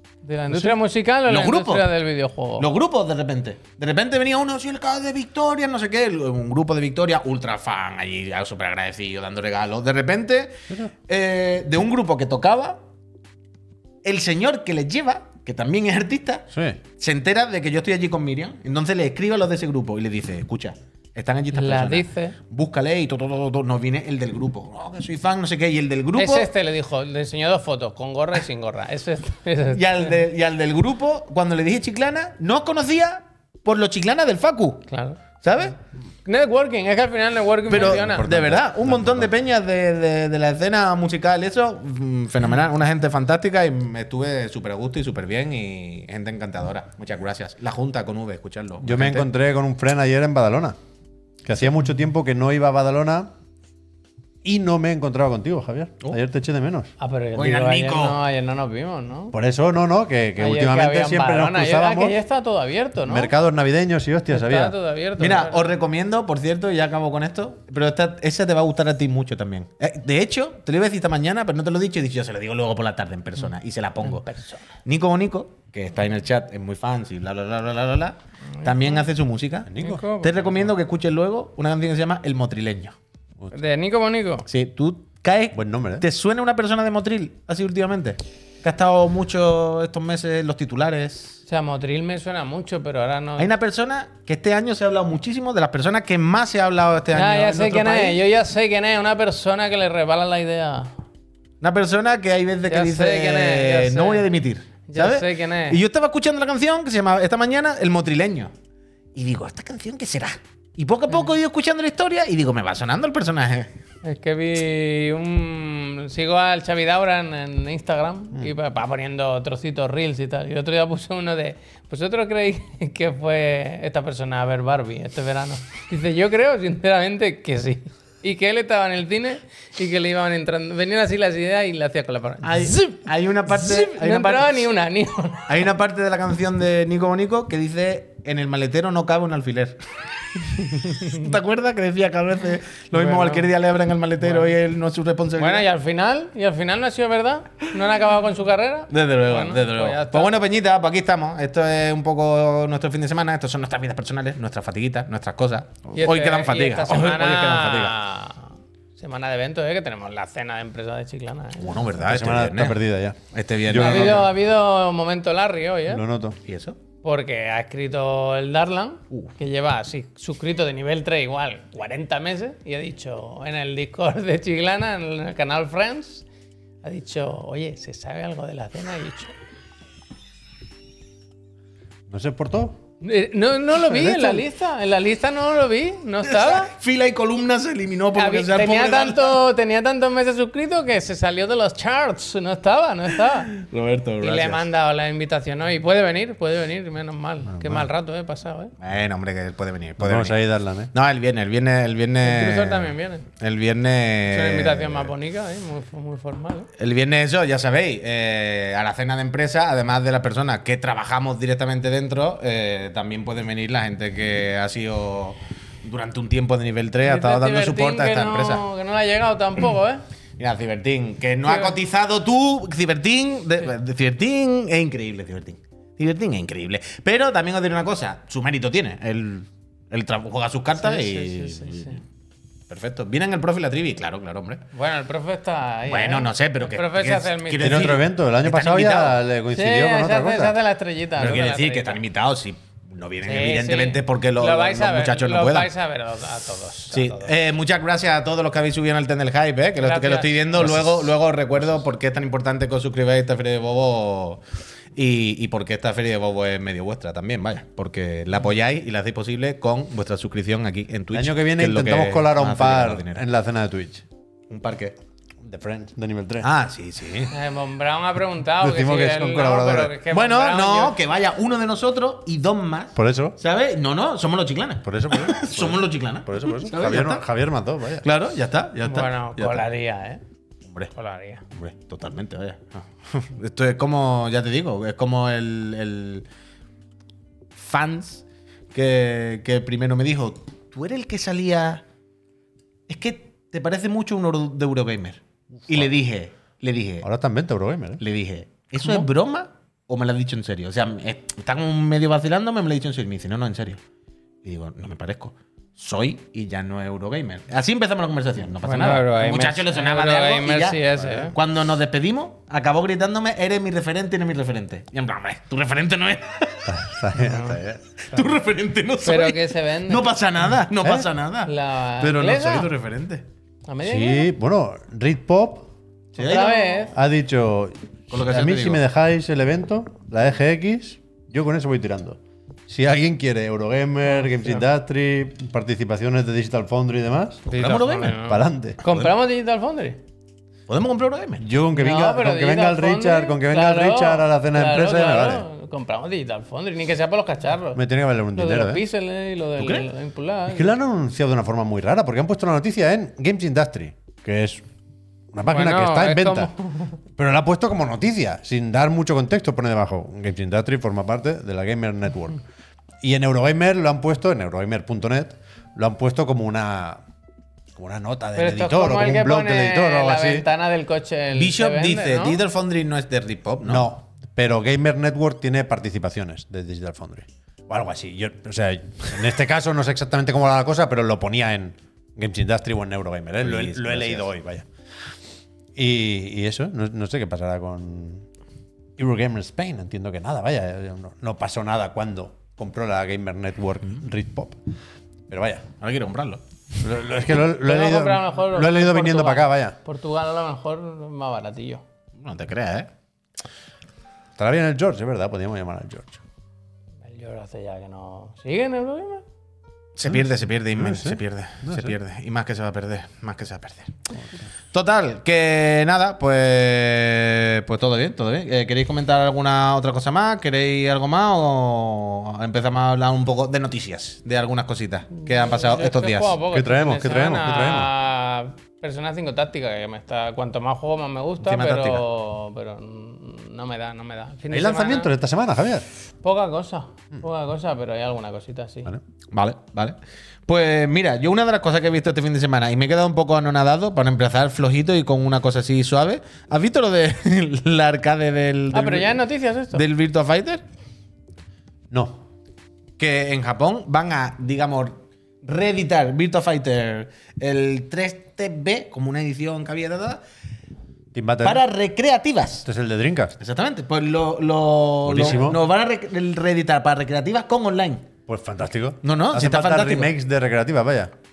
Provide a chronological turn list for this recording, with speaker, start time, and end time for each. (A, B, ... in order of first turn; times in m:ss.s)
0:00.2-0:02.7 A
0:01.2-0:01.9 B
0:02.6-0:10.6 B
0:11.1-0:12.8 B
0:14.0-0:26.5 B
0:16.5-0:16.8 C
0:21.6-0:22.4 A
0:26.2-0:30.2 A
0:29.7-0:34.9 B
0:34.9-0:35.2 A
0:35.4-0:35.8 B
0:36.3-0:38.3 A
0:37.7-0:39.3 C
0:37.7-0:49.3 B
0:48.8-0:50.8 C
0:51.4-0:53.3 C
0:54.4-0:56.9 C
0:57.0-0:59.3 A
0:57.4-0:58.2 B
0:59.3-1:02.2 C
1:00.4-1:03.3 A
1:03.1-1:04.8 C
1:04.3-1:05.6 A
1:05.2-1:14.3 B
1:14.0-1:14.6 A
1:14.8-1:23.0 B
1:18.6-1:19.0 A
1:19.7-1:20.0 C
1:19.8-1:20.6 A
1:23.5-1:24.5 A
1:24.5-1:31.4 B
1:25.5-1:26.0 C
1:31.5-1:33.5 A
1:33.4-1:38.2 B
1:37.1-1:40.9 A
1:41.6-1:48.5 B
1:42.7-1:44.2 A
1:44.9-1:45.8 A
1:49.2-1:53.7 B
1:54.0-2:15.5 A
2:12.4-2:14.7 B
2:15.5-2:19.8 B
2:20.5-2:25.6 B
2:20.8-2:21.2 A
2:22.9-2:23.5 A
2:25.4-2:30.4 A
2:28.9-2:37.9 B
2:36.0-2:41.8 A
2:41.6-2:42.8 B
2:42.0-2:44.3 C
2:43.3-2:44.3 B
2:43.8-2:46.0 A
2:45.9-2:46.4 C
2:46.5-2:46.8 B
2:47.0-2:56.3 A
2:56.8-2:59.3 A
3:02.1-3:02.8 C
3:03.0-3:06.7 A
3:03.8-3:04.5 C
3:06.2-3:09.4 B
3:08.2-3:13.5 A
3:13.5-3:14.6 B
3:14.2-3:18.7 A
3:17.5-3:17.9 C
3:18.8-3:20.4 B
3:20.0-3:20.9 C
3:20.9-3:25.1 B
3:22.2-3:23.3 A
3:24.3-3:26.7 A
3:26.8-3:38.6 B
3:37.0-3:40.0 A
3:40.4-3:52.0 B
3:41.5-3:41.8 A
3:50.8-3:52.0 A
3:52.7-3:54.6 B
3:54.7-3:58.0 A
3:55.9-3:59.2 B
3:57.6-4:00.6 C
3:59.5-4:02.0 A
4:01.2-4:05.7 B
4:03.2-4:07.3 A
4:06.9-4:14.4 B
4:09.8-4:10.6 A
4:10.6-4:10.9 C
4:15.0-4:23.2 B
4:21.1-4:24.0 C
4:24.5-4:25.0 B
4:25.4-4:26.5 C
4:26.4-4:27.3 B
4:27.3-4:31.0 A
4:28.6-4:30.0 C
4:30.1-4:37.2 B
4:33.0-4:33.4 C
4:34.8-4:38.1 C
4:38.0-4:39.1 B
4:38.8-4:40.2 A
4:40.7-4:40.9 B
4:40.9-4:41.4 A
4:41.5-4:46.3 B
4:47.6-4:51.8 B
4:52.9-4:57.1 B
4:57.0-4:58.0 C
4:58.0-5:03.8 B
5:04.4-5:17.5 B
5:08.6-5:11.4 A
5:11.0-5:11.3 C
5:16.7-5:17.8 C
5:17.2-5:17.6 A
5:18.1-5:23.2 B
5:19.0-5:20.1 A
5:21.4-5:22.7 A
5:23.7-5:24.3 A
5:23.8-5:25.7 C
5:26.2-5:26.9 B
5:26.2-5:26.9 A
5:26.9-5:37.5 C
5:28.1-5:28.8 B
5:34.2-5:34.6 A
5:37.5-5:38.2 B
5:37.5-5:40.0 A
5:38.2-5:38.8 C
5:38.8-5:39.1 B
5:40.7-5:41.4 B
5:41.4-5:45.4 C
5:41.8-5:47.8 A
5:47.8-5:48.8 C
5:48.4-5:50.7 A
5:49.6-5:49.9 B
5:50.5-5:54.6 C
5:55.3-5:56.5 C
5:55.5-5:57.0 A
5:57.2-6:02.4 C
6:03.0-6:07.0 C
6:07.8-6:10.5 C
6:08.4-6:12.4 A
6:11.3-6:13.9 B
6:13.6-6:24.7 C
6:23.4-6:24.3 B
6:25.8-6:28.3 C
6:29.0-6:34.6 C
6:35.3-6:35.7 C
6:35.8-6:36.4 B
6:36.8-6:39.8 C
6:37.6-6:41.8 A
6:42.2-6:42.9 B
6:44.4-6:46.2 C
6:47.0-6:49.2 A
6:50.0-6:53.9 B
6:50.0-6:52.0 C
6:54.7-7:06.4 B
7:05.4-7:15.1 A
7:06.5-7:07.9 C
7:11.4-7:12.0 B
7:14.5-7:15.8 C
7:16.2-7:18.9 A
7:19.3-7:20.0 B
7:20.5-7:29.2 B
7:28.7-7:29.8 A
7:29.7-7:30.6 B
7:31.9-7:32.2 C
7:33.0-7:40.2 B
7:41.1-7:41.6 C
7:41.4-7:42.7 B
7:42.6-7:43.4 C
7:43.4-7:48.1 B
7:45.0-7:45.6 C
7:48.3-7:51.1 C
7:49.0-7:50.1 B